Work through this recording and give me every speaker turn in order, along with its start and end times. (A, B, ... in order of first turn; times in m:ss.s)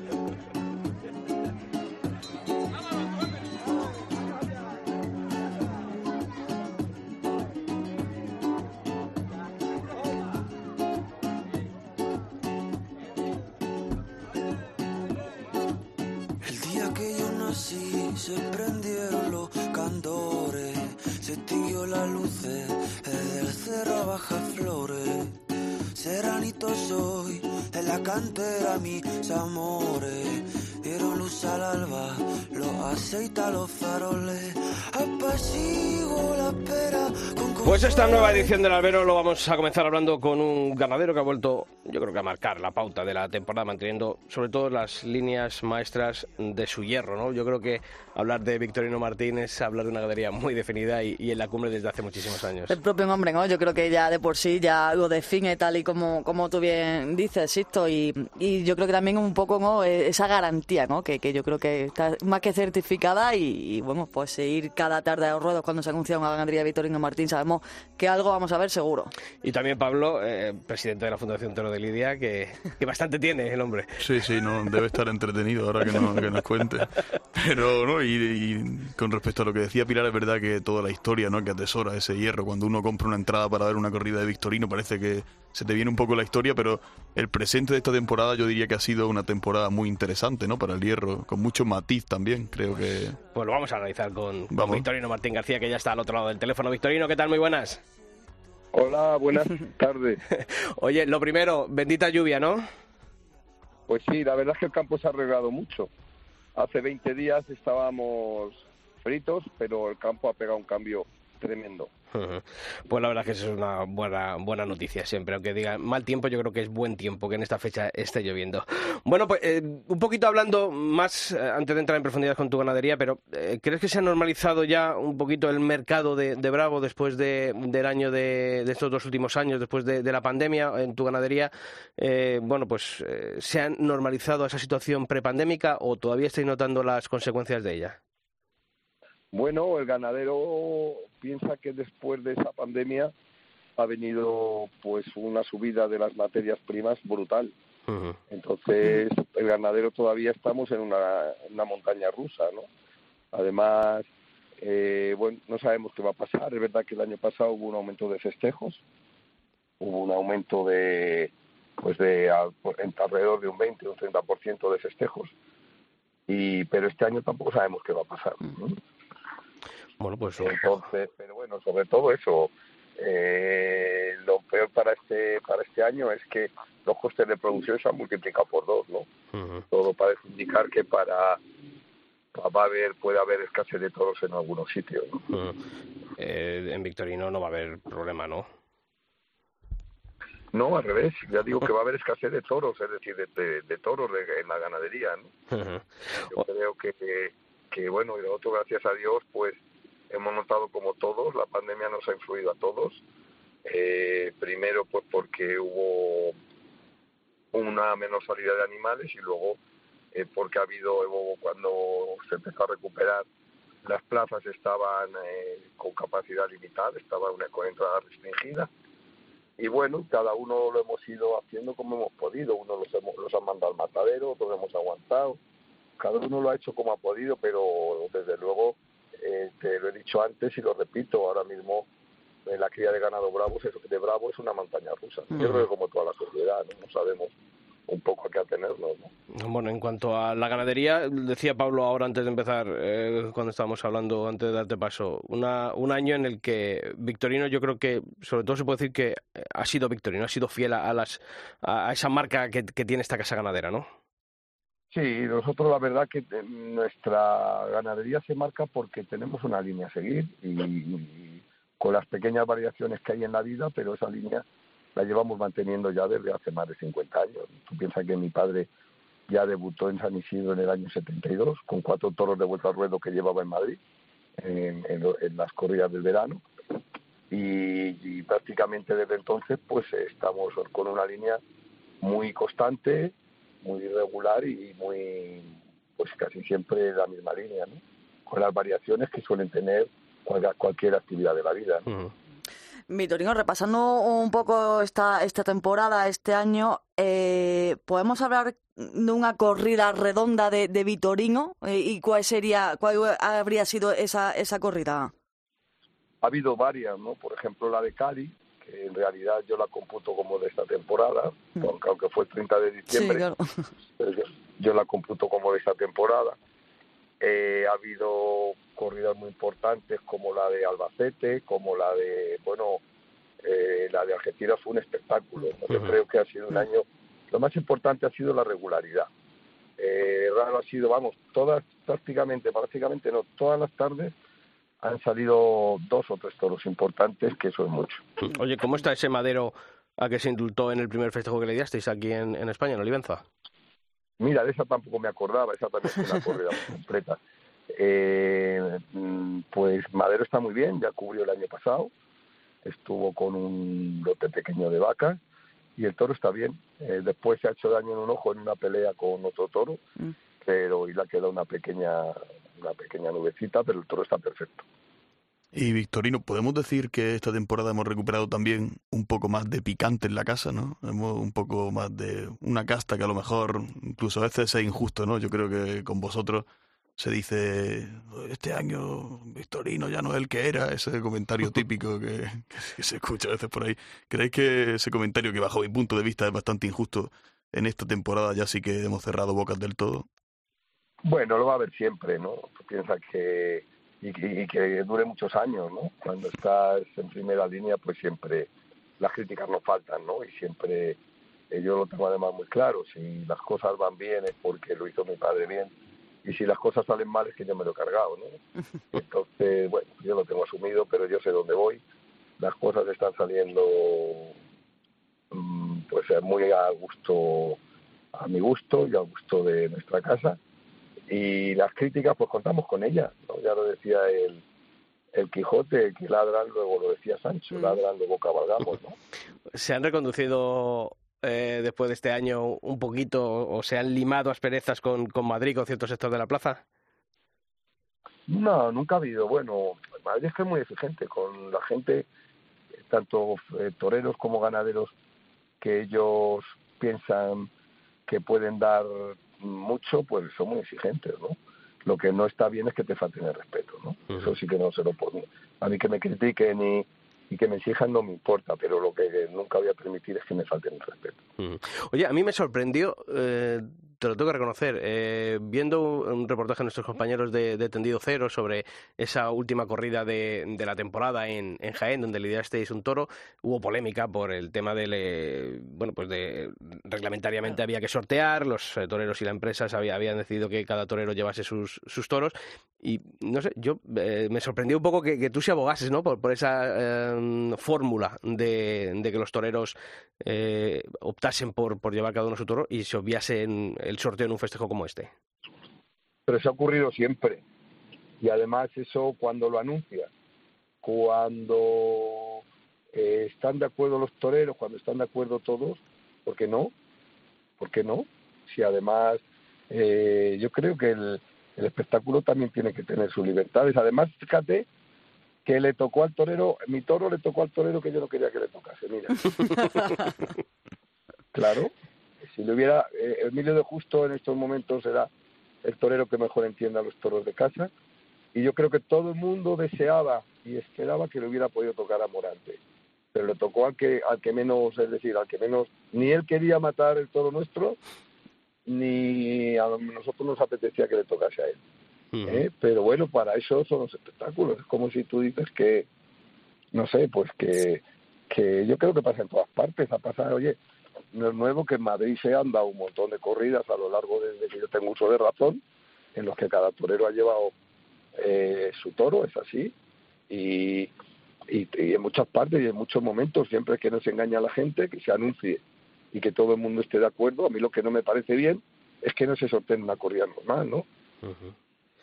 0:16.4-0:25.4 A
0:26.0-0:38.6 A
0:37.6-0:52.8 B
0:52.7-1:09.1 C
1:09.4-1:14.0 B
1:14.0-1:33.2 D
1:33.2-1:37.8 B
1:34.5-1:34.9 D
1:38.7-1:40.2 E
1:40.3-1:42.6 B
1:43.9-1:45.9 E
1:46.6-1:51.9 E
1:52.1-2:18.0 B
2:19.3-2:23.1 E
2:23.8-2:27.5 E
2:27.9-2:28.2 B
2:28.3-2:32.7 E
2:33.3-2:34.1 E
2:34.6-2:38.8 E
2:39.8-2:45.3 E
2:46.3-2:48.8 E
2:50.0-2:50.7 B
2:50.4-2:59.1 E
2:59.3-2:59.6 B
2:59.7-3:01.4 E
3:02.3-3:05.3 E
3:05.3-3:05.6 B
3:06.2-3:08.5 B
3:10.5-3:15.3 E
3:15.5-3:16.4 B
3:16.3-3:23.0 E
3:23.6-3:26.4 E
3:27.5-3:29.6 E
3:30.1-3:33.3 E
3:33.8-3:38.7 E
3:39.6-3:45.4 E
3:46.0-3:51.9 E
3:52.4-3:57.4 E
3:57.9-3:59.1 E
3:59.3-4:13.9 B
4:14.9-4:24.4 E
4:25.0-4:28.7 E
4:29.3-4:33.8 E
4:34.4-4:36.4 E
4:37.3-4:41.4 E
4:42.0-4:51.9 E
4:51.9-4:52.1 B
4:52.9-5:05.1 C
5:06.2-5:13.2 E
5:12.9-5:13.6 C
5:14.0-5:16.4 E
5:17.2-5:22.8 E
5:23.4-5:29.1 E
5:29.8-5:34.1 E
5:34.8-5:38.0 E
5:38.2-5:43.2 B
5:44.2-5:47.2 E
5:47.7-5:51.9 E
5:52.6-5:55.2 E
5:55.8-5:59.8 E
6:00.4-6:04.7 E
6:05.5-6:16.5 D
6:17.0-6:30.1 D
6:31.0-6:41.0 E
6:41.5-6:45.7 E
6:46.2-6:48.4 E
6:48.9-6:51.8 E
6:52.4-6:54.3 E
6:55.3-6:57.6 E
6:58.1-7:00.4 E
7:01.1-7:04.4 E
7:05.1-7:09.0 E
7:09.5-7:16.6 B
7:18.3-7:22.1 E
7:22.9-7:24.9 E
7:25.6-7:27.5 E
7:28.1-7:41.2 E
7:41.4-8:15.1 B
8:16.3-8:17.4 E
8:18.2-8:20.1 E
8:20.8-8:22.4 E
8:22.9-8:26.7 E
8:27.6-8:34.7 E
8:35.4-8:39.3 E
8:41.3-8:41.7 E
8:42.2-8:45.1 E
8:45.6-8:47.7 E
8:48.3-8:52.6 E
8:53.1-8:57.8 E
8:58.7-9:01.6 E
9:02.1-9:02.4 B
9:02.2-9:05.9 E
9:06.7-9:10.6 E
9:11.1-9:15.6 E
9:16.2-9:17.5 E
9:18.2-9:19.7 E
9:20.3-9:20.9 E
9:21.5-9:30.9 E
9:31.2-9:31.5 B